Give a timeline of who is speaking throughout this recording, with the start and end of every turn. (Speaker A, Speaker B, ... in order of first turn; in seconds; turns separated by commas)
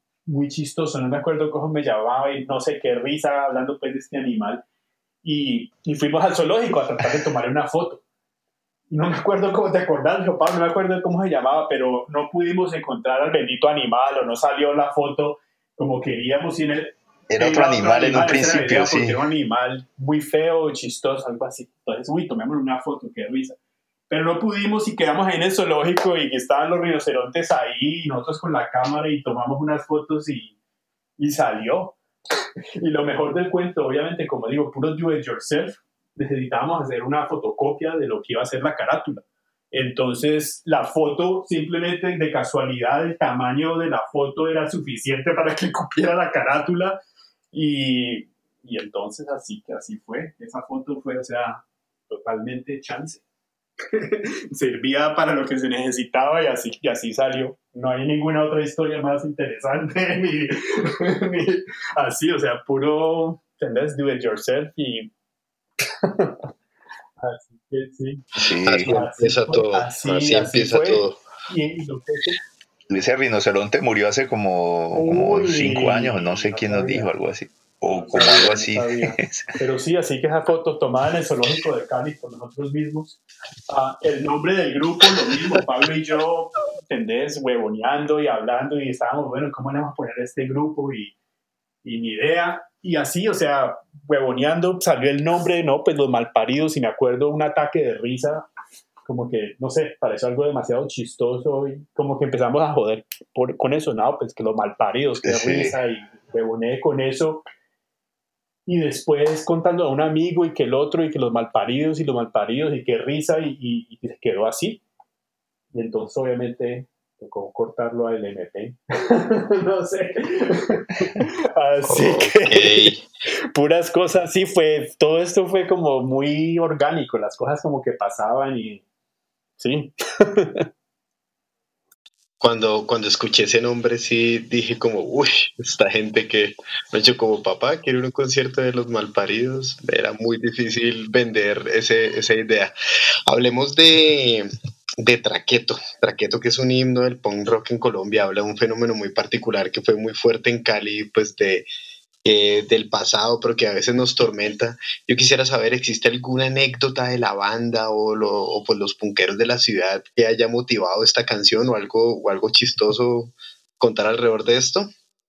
Speaker A: 0.3-4.6, Speaker A: 5.2-8.0, Speaker A: 8.9-23.6, Speaker B: 17.3-19.2, Speaker A: 24.1-30.6, Speaker A: 31.2-32.0, Speaker A: 32.8-47.0, Speaker A: 47.5-53.2, Speaker A: 53.8-65.1, Speaker A: 66.0-66.4, Speaker A: 67.2-72.4, Speaker B: 68.4-69.0, Speaker C: 68.4-71.2, Speaker B: 72.9-79.5, Speaker A: 74.9-77.1, Speaker A: 77.9-91.1, Speaker A: 91.8-98.5, Speaker A: 99.0-107.4, Speaker B: 105.2-105.8, Speaker A: 108.7-114.8, Speaker A: 115.7-122.9, Speaker C: 121.9-123.1, Speaker A: 123.5-128.8, Speaker A: 129.6-130.7, Speaker C: 132.4-142.7, Speaker C: 143.3-144.5, Speaker C: 145.0-151.7, Speaker C: 152.2-164.9